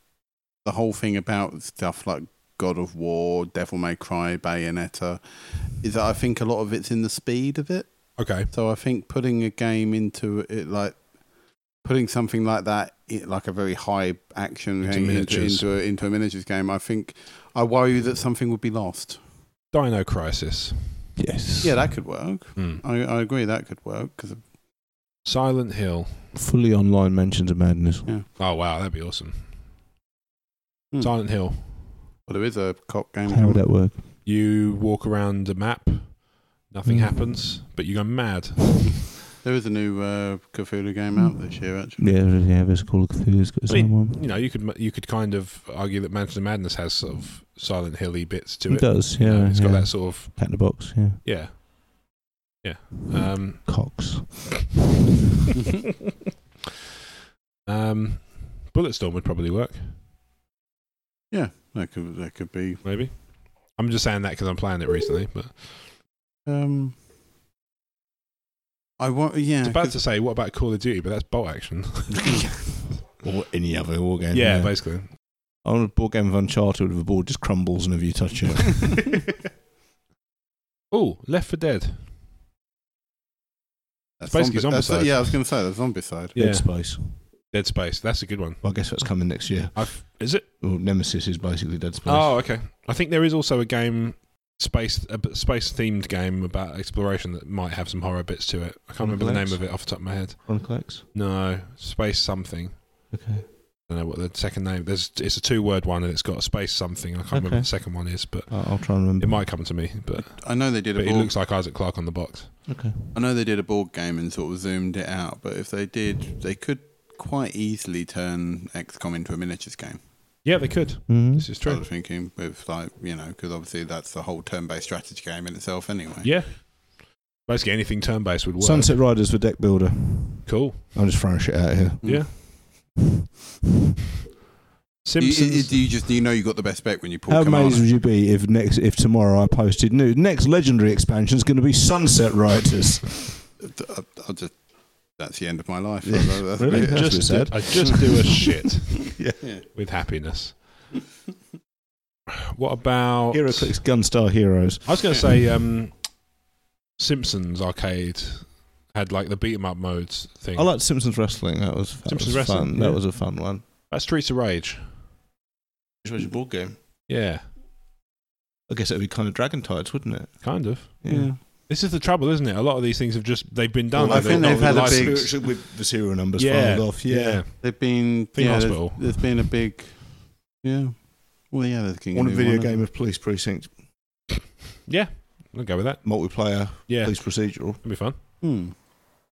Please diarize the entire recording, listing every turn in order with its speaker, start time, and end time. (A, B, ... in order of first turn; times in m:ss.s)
0:00.6-0:19.2 A
0:08.2-0:08.5 B
0:14.8-0:15.6 B
0:19.7-0:21.1 B
0:21.2-0:21.9 C
0:21.6-0:24.5 A
0:22.6-0:22.8 B
0:25.2-0:26.2 B
0:26.3-0:28.1 C
0:28.4-0:29.5 B
0:30.9-0:31.3 A
0:31.0-0:32.0 B
0:32.2-0:33.8 A
0:33.3-0:34.0 C
0:34.2-0:39.0 B
0:36.8-0:37.5 C
0:39.4-0:42.2 A
0:41.1-0:44.3 C
0:43.7-0:51.6 B
0:48.7-0:51.2 C
0:52.6-0:54.1 B
0:53.2-0:54.7 C
0:57.6-1:00.0 B
1:01.3-1:03.0 A
1:02.8-1:05.9 B
1:06.4-1:07.0 A
1:09.0-1:10.0 A
1:09.6-1:12.6 B
1:13.0-1:19.2 C
1:14.3-1:15.1 B
1:20.9-1:22.1 B
1:24.2-1:26.4 A
1:24.3-1:25.4 B
1:26.3-1:27.2 C
1:26.3-1:30.4 B
1:28.6-1:32.5 C
1:32.0-1:43.1 B
1:39.0-1:41.1 C
1:43.1-1:43.5 C
1:43.8-1:52.7 B
1:47.3-1:49.6 C
1:50.4-1:51.4 A
1:52.6-1:53.0 C
1:53.1-2:00.1 A
2:00.4-2:01.8 B
2:01.1-2:01.5 C
2:01.6-2:06.4 A
2:06.2-2:09.0 B
2:08.6-2:12.7 C
2:10.4-2:10.9 B
2:12.0-2:12.3 A
2:12.0-2:12.4 B
2:15.0-2:15.8 B
2:15.2-2:17.9 A
2:17.3-2:23.4 C
2:23.6-2:28.3 A
2:26.0-2:28.2 C
2:26.7-2:30.6 B
2:29.2-2:29.4 C
2:32.3-2:33.8 B
2:33.3-2:35.4 C
2:34.8-2:36.2 B
2:37.0-2:40.7 B
2:40.5-2:43.6 C
2:42.0-2:45.0 B
2:46.0-2:46.8 C
2:47.1-2:47.5 B
2:48.7-2:51.4 C
2:50.4-2:55.6 B
2:51.0-2:51.4 A
2:53.9-2:57.4 C
2:54.0-2:55.5 A
2:56.4-2:59.4 B
2:57.6-3:02.8 A
3:02.1-3:03.8 C
3:04.8-3:08.2 B
3:06.0-3:07.9 C
3:08.4-3:08.8 A